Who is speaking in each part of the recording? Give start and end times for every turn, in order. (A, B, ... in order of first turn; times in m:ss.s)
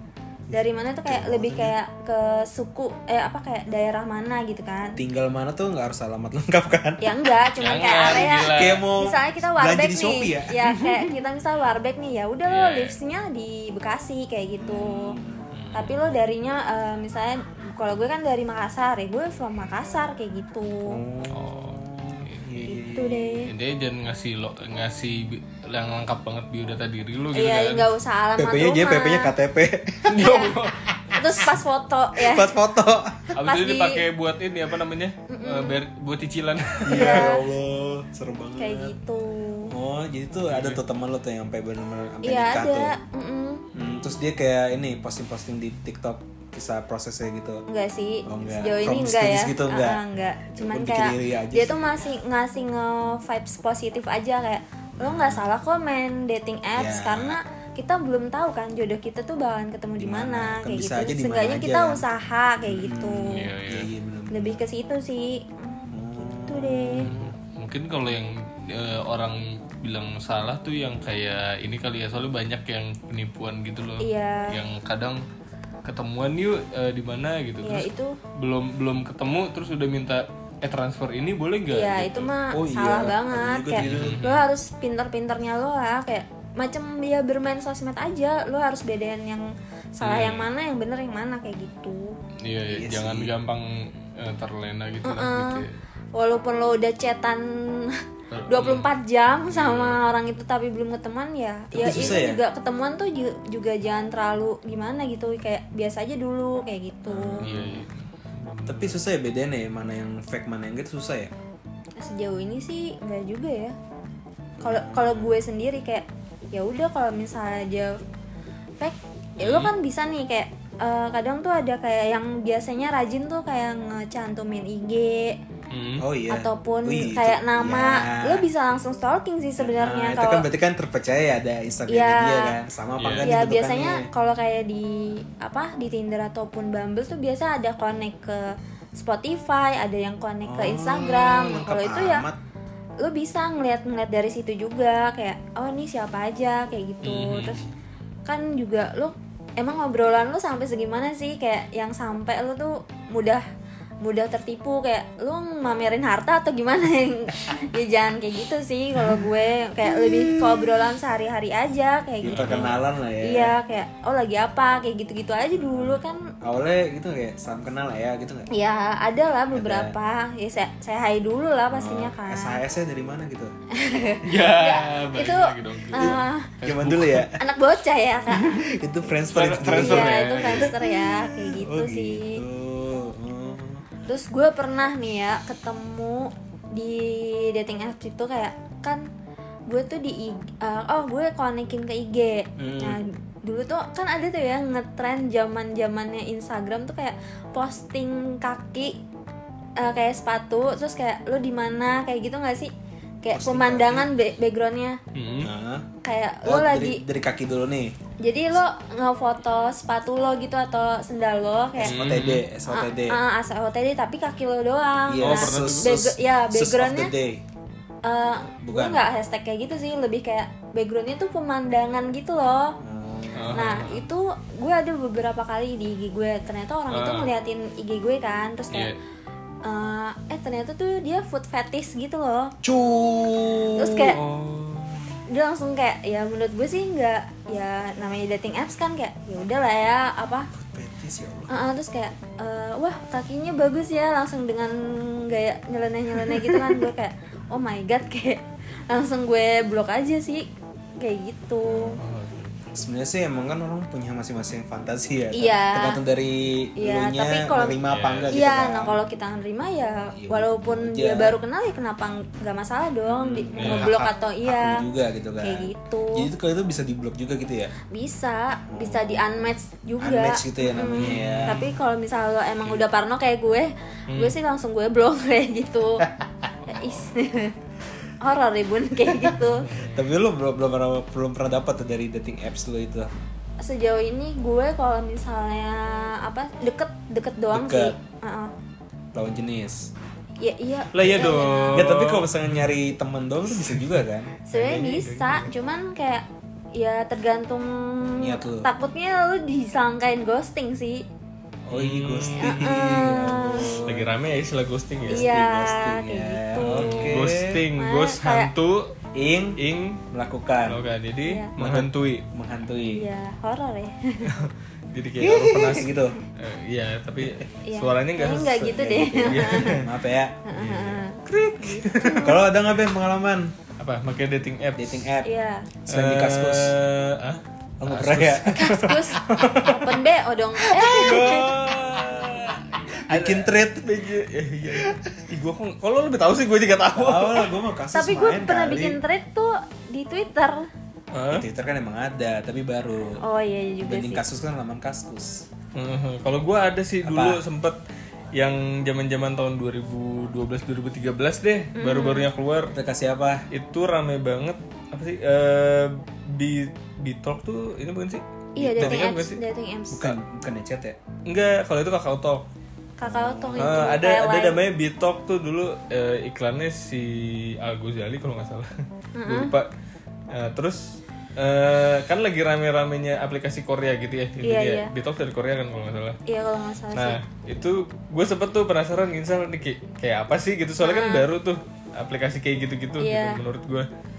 0:00.5-0:01.7 A
0:00.5-0:05.0 B
0:05.0-0:07.2 A
0:07.0-0:15.2 B
0:07.6-0:08.8 C
0:08.1-0:10.6 A
0:12.5-0:12.9 C
0:14.6-0:15.5 A
0:15.5-0:16.1 C
0:15.7-0:21.0 B
0:20.9-0:23.4 A
0:21.3-0:22.5 C
0:22.6-0:23.5 B
0:23.5-0:27.9 C
0:27.3-0:29.3 B
0:28.4-0:30.2 A
0:30.0-0:31.0 C
0:30.1-0:30.6 B
0:31.1-0:32.5 B
0:32.2-0:33.3 A
0:33.3-0:37.3 C
0:33.4-0:34.0 B
0:35.3-0:35.8 B
0:36.9-0:39.0 A
0:36.9-0:37.4 B
0:38.6-0:39.7 B
0:39.7-0:42.9 A
0:40.5-0:40.8 C
0:42.2-0:43.7 B
0:43.7-0:47.6 A
0:47.7-1:03.5 B
0:48.3-0:50.0 A
0:50.6-0:51.9 A
0:55.0-0:55.4 A
0:56.8-0:57.4 A
1:00.0-1:02.1 A
1:02.6-1:04.6 A
1:03.3-1:03.9 C
1:04.3-1:07.1 B
1:05.9-1:07.3 A
1:07.0-1:15.2 C
1:14.0-1:14.6 B
1:15.8-1:22.3 C
1:17.6-1:18.2 B
1:21.7-1:32.2 B
1:22.5-1:24.2 A
1:23.8-1:24.4 C
1:30.0-1:30.5 C
1:32.4-1:35.7 C
1:32.7-1:33.3 A
1:35.0-1:47.4 B
1:38.3-1:38.9 C
1:39.5-1:40.0 C
1:41.8-1:42.4 A
1:41.8-1:42.2 C
1:47.1-1:47.9 A
1:47.4-1:49.0 C
1:48.7-1:51.3 A
1:52.0-1:53.8 B
1:54.6-1:55.4 A
1:54.6-1:58.0 B
1:58.8-2:05.4 B
1:59.4-1:59.7 C
2:05.7-2:06.1 C
2:06.0-2:08.4 A
2:06.3-2:10.5 B
2:09.6-2:14.1 A
2:11.9-2:12.5 B
2:13.0-2:13.3 C
2:13.2-2:22.3 B
2:20.4-2:22.4 A
2:23.0-2:27.6 B
2:27.0-2:27.7 C
2:28.3-2:33.4 B
2:34.0-2:46.3 B
2:39.8-2:40.8 A
2:42.2-2:43.6 A
2:42.3-2:42.8 C
2:45.6-2:48.5 A
2:48.5-2:52.6 B
2:49.5-2:50.0 A
2:51.7-2:53.5 A
2:53.7-2:56.5 B
2:54.2-2:57.3 C
2:56.0-2:57.4 A
2:57.4-2:58.7 B
2:58.3-3:03.8 A
2:59.3-3:00.7 C
2:59.8-3:02.4 B
3:04.1-3:09.0 B
3:09.7-3:19.0 B
3:12.6-3:13.0 A
3:19.8-3:25.0 B
3:23.3-3:24.1 A
3:25.1-3:25.5 C
3:25.4-3:25.9 A
3:26.0-3:27.0 B
3:26.4-3:27.9 A
3:28.2-3:37.1 B
3:31.8-3:33.2 A
3:31.8-3:32.4 C
3:35.1-3:37.4 A
3:35.2-3:35.9 C
3:38.0-3:42.8 B
3:38.6-3:39.0 A
3:42.8-3:43.8 A
3:43.3-3:44.1 C
3:43.5-3:48.9 B
3:46.9-3:47.3 C
3:48.7-3:49.0 C
3:49.6-3:52.6 B
3:52.6-3:54.2 A
3:53.8-3:54.2 B
3:54.1-3:55.2 C
3:55.3-4:00.5 B
4:00.5-4:01.6 A
4:01.5-4:12.0 B
4:06.2-4:06.9 A
4:11.7-4:12.0 A
4:12.0-4:12.7 C
4:12.7-4:19.0 A
4:15.3-4:16.0 B
4:16.8-4:17.8 B
4:17.8-4:18.3 C
4:18.3-4:24.8 B
4:20.2-4:21.4 A
4:23.0-4:27.7 A
4:23.6-4:24.0 C
4:25.4-4:26.3 B
4:27.9-4:36.0 B
4:28.7-4:29.4 A
4:30.0-4:31.6 A
4:31.0-4:31.8 C
4:34.1-4:34.4 C
4:36.6-4:37.6 B
4:38.2-4:39.7 B
4:39.1-4:43.1 A
4:39.4-4:40.1 C
4:43.6-4:48.5 B
4:47.5-4:48.0 A
4:49.1-4:49.9 A
4:50.4-4:51.8 B
4:50.9-4:52.7 C
4:50.9-4:54.3 A
4:53.6-4:55.5 C
4:54.5-5:01.0 B
4:58.2-4:58.7 A
5:01.6-5:04.1 A
5:01.7-5:02.7 C
5:02.4-5:03.8 B
5:03.8-5:05.3 C
5:05.1-5:07.6 A
5:05.1-5:07.2 B
5:06.6-5:08.9 C
5:07.8-5:08.5 B
5:09.2-5:09.6 A
5:09.6-5:10.0 C
5:10.1-5:10.8 A
5:10.7-5:12.2 C
5:11.6-5:13.0 A
5:12.9-5:14.3 B
5:14.3-5:18.6 C
5:15.2-5:16.2 A
5:17.7-5:19.8 B
5:18.5-5:20.9 A
5:19.3-5:19.9 C
5:20.5-5:22.5 B
5:20.6-5:21.9 C
5:21.9-5:23.5 A
5:23.8-5:25.0 C
5:24.8-5:25.3 A
5:25.2-5:25.7 B
5:25.9-5:26.8 A
5:25.9-5:29.7 C
5:27.8-5:29.9 A
5:28.5-5:31.5 B
5:30.7-5:37.5 C
5:30.8-5:31.4 A
5:32.0-5:32.3 A
5:33.1-5:33.9 A
5:34.7-5:35.2 A
5:36.9-5:39.0 A
5:37.9-5:40.7 B
5:41.1-5:41.4 C
5:41.3-5:43.2 A
5:43.2-5:44.2 B
5:43.8-5:45.5 A
5:45.8-5:47.8 C
5:47.0-5:47.4 A
5:48.4-5:52.7 C
5:51.8-5:52.3 B
5:52.7-5:53.4 A
5:53.5-5:59.4 C
5:58.6-6:00.2 B
5:58.6-5:59.1 A
5:59.9-6:01.0 A
6:01.3-6:02.5 C
6:03.0-6:04.6 B
6:03.0-6:04.0 A
6:03.6-6:08.7 C
6:09.2-6:09.5 B
6:09.3-6:09.7 C
6:10.3-6:16.2 C
6:14.4-6:14.9 B
6:16.3-6:17.2 B
6:16.9-6:23.9 C
6:20.8-6:21.3 B
6:23.0-6:23.4 B